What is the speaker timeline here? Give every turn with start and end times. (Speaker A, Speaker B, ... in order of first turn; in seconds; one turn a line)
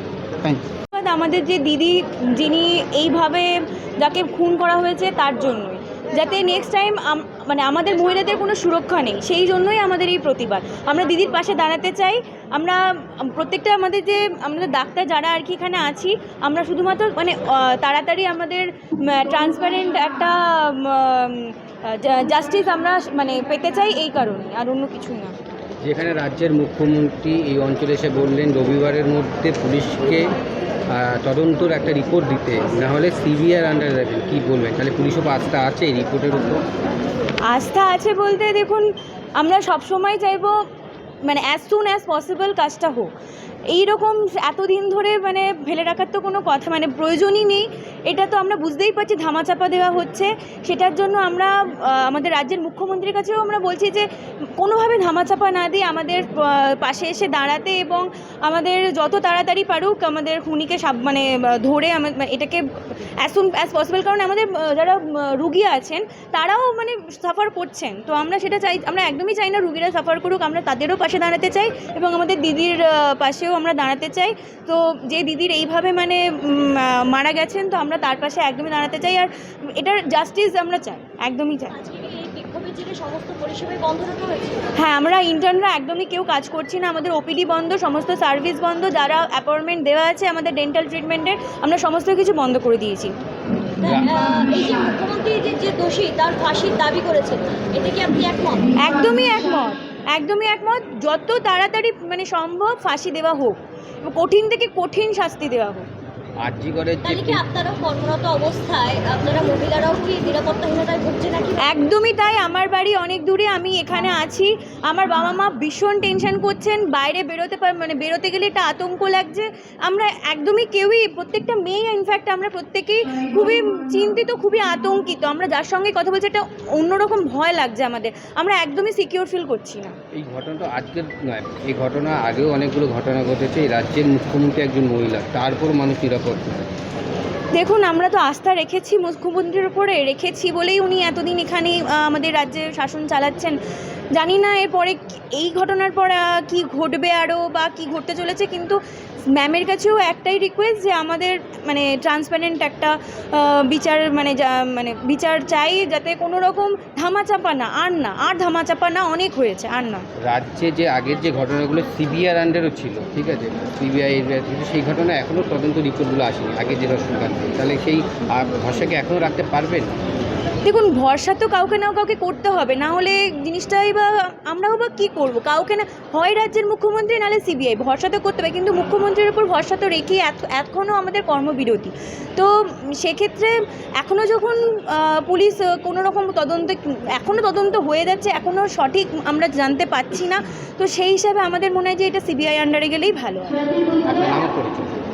Speaker A: 0.9-25.4
Speaker B: 25.8-30.3
Speaker B: 30.9-36.6
Speaker A: 37.5-40.6
Speaker A: 41.2-43.1
Speaker A: 43.7-81.7
Speaker C: 81.7-84.7
Speaker A: 84.8-93.1
Speaker C: 93.8-98.8
Speaker B: 93.8-94.2
Speaker A: 98.8-105.9
Speaker B: 106.4-107.4
Speaker C: 107.0-111.8
Speaker A: 111.6-129.9
Speaker B: 130.2-136.7
Speaker A: 137.5-143.6
Speaker A: 144.1-160.1
Speaker B: 160.2-169.9
Speaker A: 170.6-193.6
Speaker B: 194.0-195.0